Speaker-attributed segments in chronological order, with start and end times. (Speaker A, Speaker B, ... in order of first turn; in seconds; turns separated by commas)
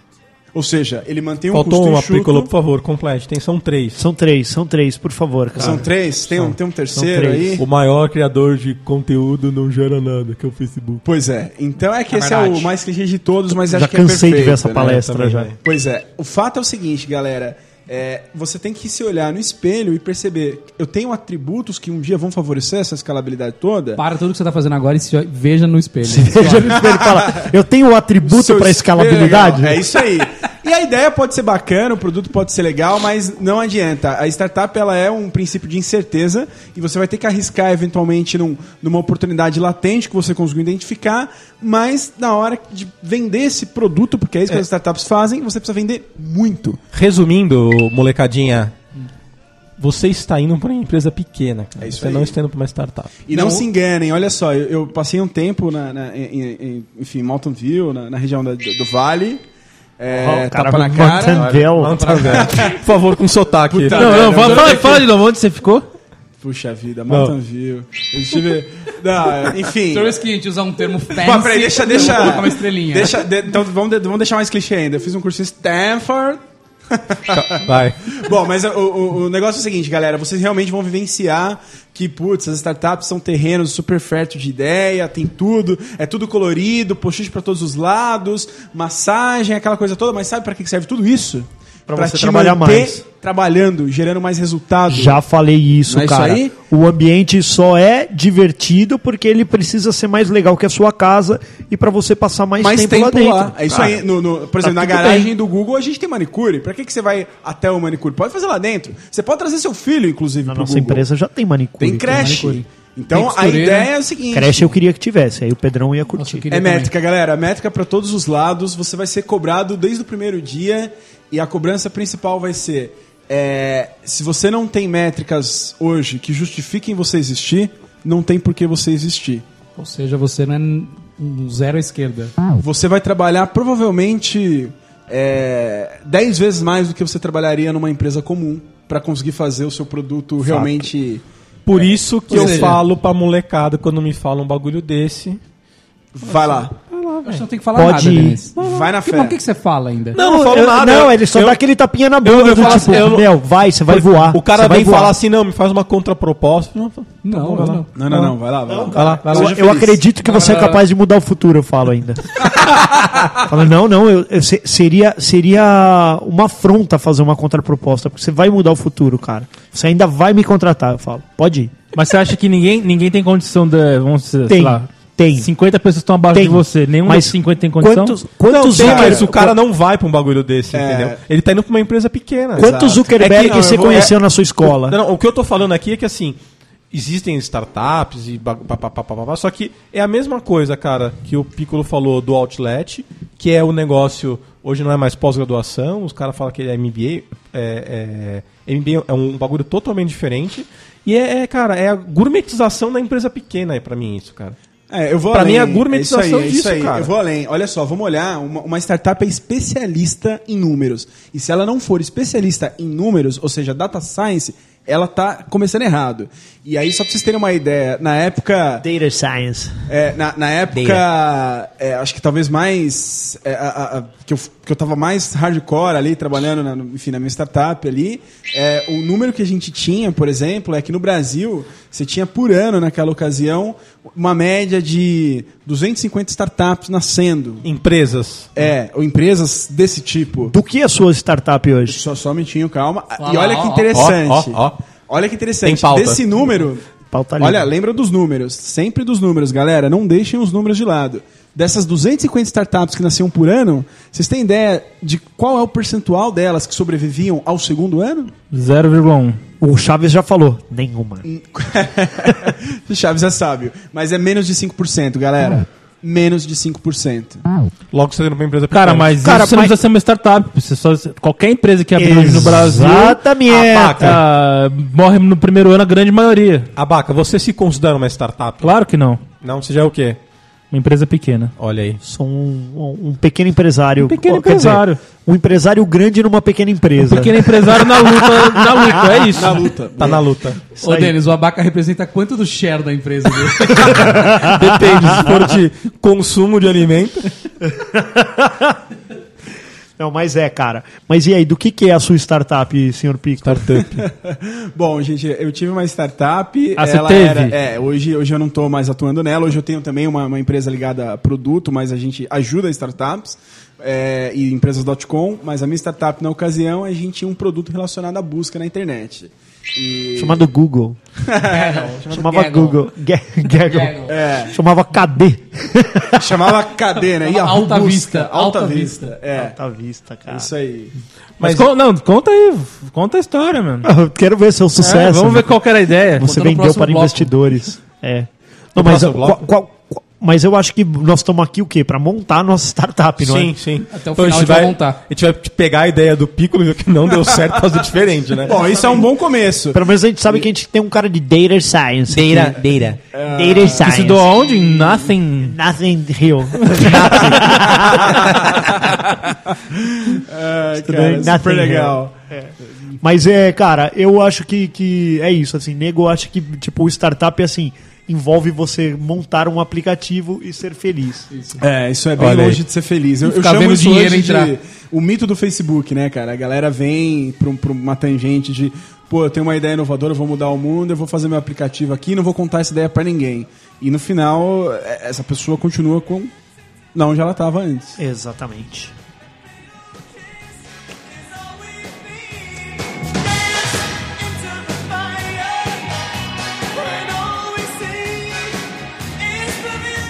Speaker A: 0.5-2.5, Speaker B: 1.5-4.0, Speaker C: 4.0-7.6, Speaker A: 5.6-7.6, Speaker B: 7.6-11.0, Speaker A: 11.0-15.0, Speaker D: 12.1-12.7, Speaker C: 13.7-15.5, Speaker B: 14.8-15.6, Speaker A: 15.6-24.0, Speaker D: 23.9-26.8, Speaker C: 26.0-29.9, Speaker A: 26.7-27.5, Speaker A: 28.2-46.8, Speaker B: 46.9-48.7, Speaker B: 49.8-53.3, Speaker A: 51.8-52.3, Speaker A: 53.3-59.4, Speaker D: 53.3-53.6, Speaker A: 60.0-61.5, Speaker C: 60.1-62.5, Speaker B: 61.1-64.8, Speaker D: 62.0-62.4, Speaker A: 62.3-62.8, Speaker A: 63.7-65.1, Speaker E: 63.9-65.9, Speaker D: 64.4-64.7, Speaker A: 66.4-70.2, Speaker B: 67.1-67.3, Speaker D: 69.9-73.2, Speaker A: 71.1-95.2, Speaker B: 77.3-78.2, Speaker C: 91.9-93.0, Speaker C: 94.9-104.0, Speaker A: 95.9-96.5, Speaker A: 102.6-111.0, Speaker C: 104.6-105.3, Speaker C: 110.4-112.4, Speaker A: 111.8-114.7, Speaker D: 112.1-113.9, Speaker C: 114.3-116.5, Speaker D: 116.2-116.9, Speaker A: 116.5-129.4, Speaker D: 129.8-132.3, Speaker A: 132.6-141.2, Speaker C: 140.4-140.9, Speaker B: 141.6-145.4, Speaker A: 141.7-142.8, Speaker D: 142.3-142.8, Speaker A: 146.1-146.7, Speaker B: 146.3-147.4, Speaker D: 147.2-150.2, Speaker C: 147.7-148.4, Speaker B: 148.6-149.0, Speaker A: 148.6-149.4, Speaker B: 150.1-151.6, Speaker C: 150.2-155.2, Speaker B: 152.2-158.3, Speaker D: 152.5-153.1, Speaker D: 157.2-157.9, Speaker A: 157.9-160.0, Speaker C: 158.7-171.8, Speaker B: 158.9-159.9, Speaker D: 160.2-160.8, Speaker E: 171.9-178.2, Speaker C: 174.5-175.5, Speaker C: 176.3-179.5, Speaker B: 178.5-184.1, Speaker A: 178.8-179.3, Speaker A: 180.7-181.2, Speaker C: 182.6-185.0, Speaker A: 182.6-184.1, Speaker B: 184.6-186.4, Speaker B: 186.9-204.6, Speaker A: 204.9-218.8, Speaker B: 205.3-207.1, Speaker C: 218.8-219.8, Speaker A: 219.9-237.7, Speaker B: 220.7-221.0, Speaker B: 237.6-238.5, Speaker A: 238.6-240.5, Speaker C: 240.5-242.0, Speaker A: 241.9-246.8, Speaker D: 243.2-243.9, Speaker B: 243.9-244.8, Speaker B: 245.6-246.2, Speaker C: 247.1-247.7, Speaker A: 247.4-258.3, Speaker E: 258.5-259.4, Speaker C: 259.6-261.2, Speaker A: 261.2-267.4, Speaker B: 267.9-269.4, Speaker E: 268.7-273.2, Speaker C: 269.2-269.8, Speaker C: 272.0-274.2, Speaker B: 273.5-274.2, Speaker E: 274.0-276.7, Speaker B: 276.7-278.8, Speaker E: 278.6-279.2, Speaker B: 279.4-280.2, Speaker E: 280.7-281.5, Speaker B: 281.6-282.0, Speaker C: 282.0-289.2, Speaker E: 284.0-285.0, Speaker E: 287.0-289.6, Speaker A: 289.3-290.3, Speaker B: 290.0-290.6, Speaker C: 290.8-291.1, Speaker D: 290.8-294.1, Speaker C: 293.8-295.6, Speaker B: 293.8-297.3, Speaker C: 297.7-298.8, Speaker C: 300.0-303.8, Speaker B: 303.4-304.0, Speaker A: 304.0-320.4, Speaker E: 306.8-307.5, Speaker C: 320.1-321.0, Speaker A: 321.2-321.9, Speaker D: 321.4-322.9, Speaker C: 322.1-326.5, Speaker D: 323.5-324.1, Speaker A: 324.1-324.6, Speaker A: 326.2-329.5, Speaker D: 327.2-329.1, Speaker C: 329.3-330.5, Speaker A: 330.3-330.9, Speaker B: 331.4-331.7, Speaker E: 331.4-333.9, Speaker C: 333.8-343.5, Speaker E: 334.8-336.2, Speaker D: 336.2-337.4, Speaker B: 338.8-339.4, Speaker B: 343.2-349.0, Speaker D: 343.9-345.0, Speaker A: 348.4-350.5, Speaker C: 349.7-358.9, Speaker B: 352.1-353.0, Speaker A: 353.1-354.1, Speaker E: 353.8-355.6, Speaker B: 356.8-358.2, Speaker A: 357.7-358.6, Speaker A: 359.5-362.1, Speaker C: 360.8-371.3, Speaker D: 371.3-371.6, Speaker A: 371.6-386.3, Speaker B: 372.2-372.6, Speaker D: 373.2-374.5, Speaker A: 386.9-388.0, Speaker C: 388.0-388.9, Speaker A: 394.5-395.7, Speaker A: 396.8-398.4